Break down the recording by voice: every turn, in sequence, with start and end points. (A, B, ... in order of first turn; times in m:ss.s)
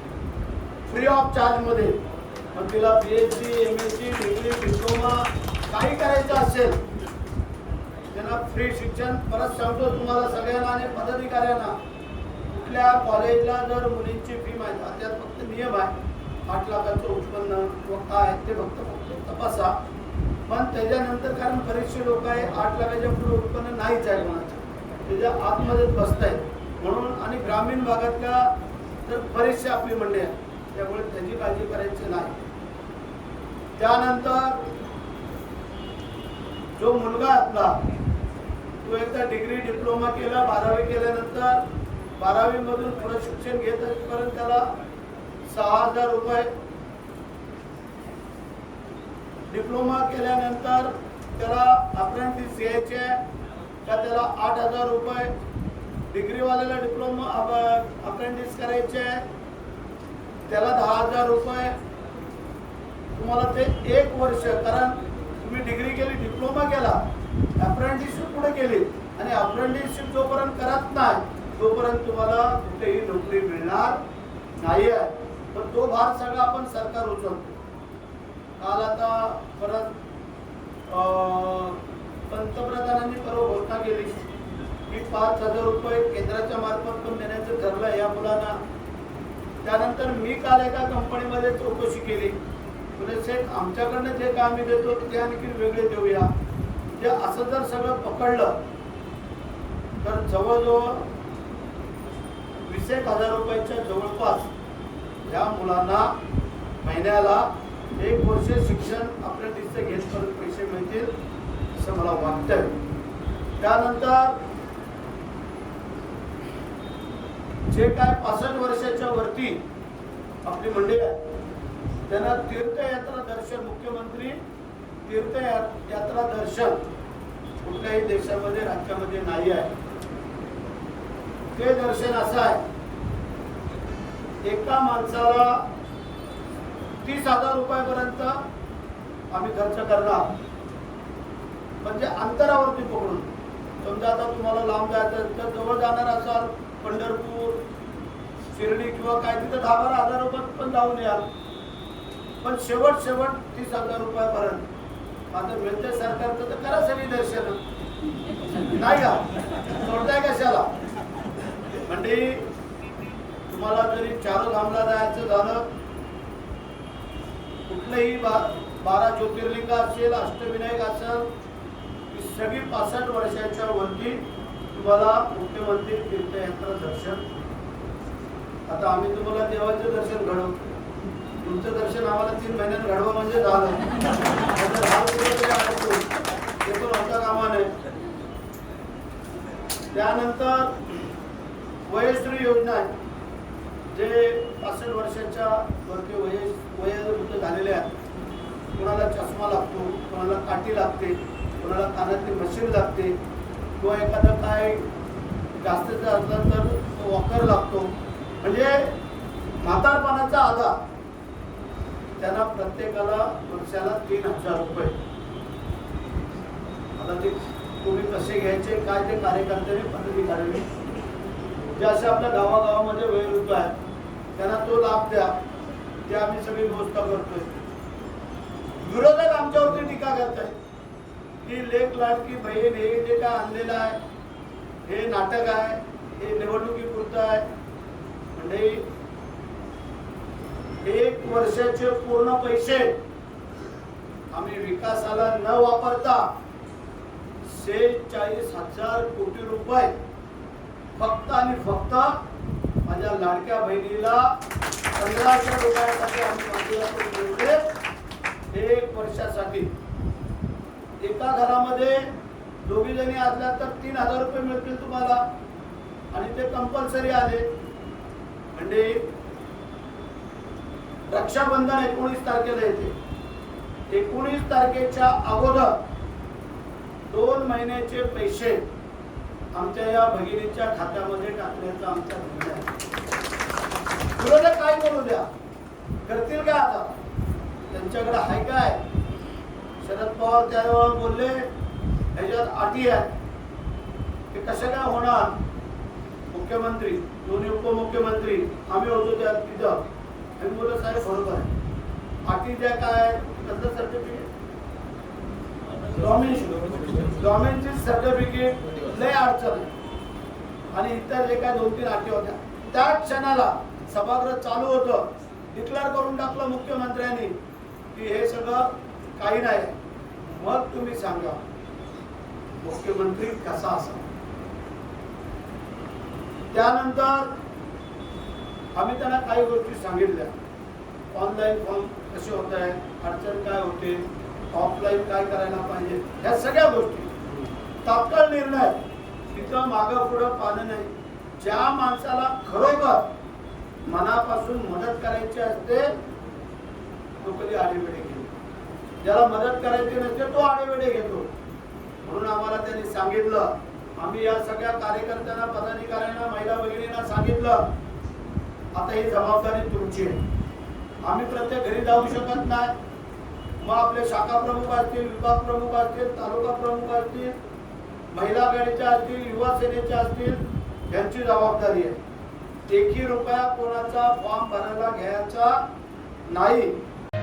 0:00.8-0:02.0 A
0:02.5-0:06.8 A
0:08.1-0:11.7 A
0:12.5-0:15.9 A
0:16.5-0:19.7 A
0:20.5-0:28.5 A
0:29.0-0:32.4 A
0:33.8-0:34.6 A
0:36.8-0:37.8 A
0:38.8-0:41.6 A
0:42.2-0:44.6 A
0:45.4-0:46.5 A
0:49.5-0:53.2 A
0:53.8-0:55.3 A
0:56.1-0:59.2 A
1:00.5-1:01.8 A
1:03.1-1:07.0 A
1:07.6-1:14.0 A
1:14.6-1:17.6 A
1:18.6-1:19.9 A
1:20.9-1:24.2 A
1:24.9-1:28.6 A
1:29.6-1:32.4 A
1:33.0-1:36.3 A
1:36.9-1:38.6 A
1:40.0-1:41.1 A
1:42.6-1:44.5 A
1:45.2-1:46.1 A
1:46.8-1:51.1 A
1:51.7-1:52.7 A
1:53.6-1:54.4 A
1:57.7-1:59.6 A
2:00.4-2:01.2 A
2:02.1-2:04.4 A
2:05.0-2:06.8 A
2:07.6-2:09.7 A
2:11.5-2:12.6 A
2:14.4-2:15.6 A
2:17.0-2:18.3 A
2:19.3-2:20.3 A
2:21.8-2:27.6 A
2:28.5-2:31.3 A
2:32.4-2:34.7 A
2:35.3-2:37.6 A
2:38.7-2:39.3 A
2:39.8-2:40.7 A
2:41.8-2:42.4 A
2:43.5-2:45.7 A
2:47.7-2:51.3 A
2:52.1-2:57.2 A
2:58.7-3:00.6 A
3:01.4-3:03.8 A
3:04.5-3:06.1 A
3:06.6-3:07.7 A
3:09.9-3:10.8 A
3:11.9-3:12.9 A
3:13.9-3:17.9 A
3:18.8-3:23.2 A
3:23.8-3:24.8 A
3:25.6-3:27.9 A
3:28.4-3:28.9 A
3:29.6-3:30.8 A
3:32.2-3:35.0 A
3:37.0-3:40.7 A
3:41.7-3:43.8 A
3:44.3-3:45.3 A
3:46.0-3:47.6 A
3:48.8-3:50.6 A
3:51.4-3:54.0 A
3:54.8-3:57.4 A
3:58.3-3:58.8 A
4:00.8-4:02.9 A
4:04.3-4:06.2 A
4:07.4-4:09.9 A
4:11.0-4:12.2 A
4:12.8-4:14.3 A
4:15.0-4:17.6 A
4:18.5-4:19.7 A
4:21.0-4:22.0 A
4:22.6-4:25.2 A
4:26.1-4:27.5 A
4:28.5-4:29.0 A
4:31.1-4:32.9 A
4:33.9-4:35.7 A
4:37.1-4:38.6 A
4:39.5-4:42.7 A
4:44.2-4:45.3 A
4:46.0-4:46.9 A
4:47.7-4:48.8 A
4:49.8-4:51.5 A
4:52.1-4:53.1 A
4:54.3-4:55.4 A
4:56.3-4:59.8 A
5:00.4-5:01.5 A
5:02.2-5:04.3 A
5:05.9-5:09.7 A
5:10.7-5:17.3 A
5:17.9-5:19.7 A
5:20.3-5:21.4 A
5:22.6-5:24.0 A
5:26.5-5:27.3 A
5:28.7-5:30.3 A
5:31.1-5:37.1 A
5:37.8-5:38.8 A
5:39.3-5:43.1 A
5:43.8-5:45.9 A
5:47.2-5:48.3 A
5:49.0-5:51.3 A
5:52.0-5:57.6 A
5:58.7-6:00.2 A
6:01.0-6:02.7 A
6:03.6-6:07.3 A
6:08.1-6:12.0 A
6:12.7-6:15.6 A
6:16.3-6:16.7 A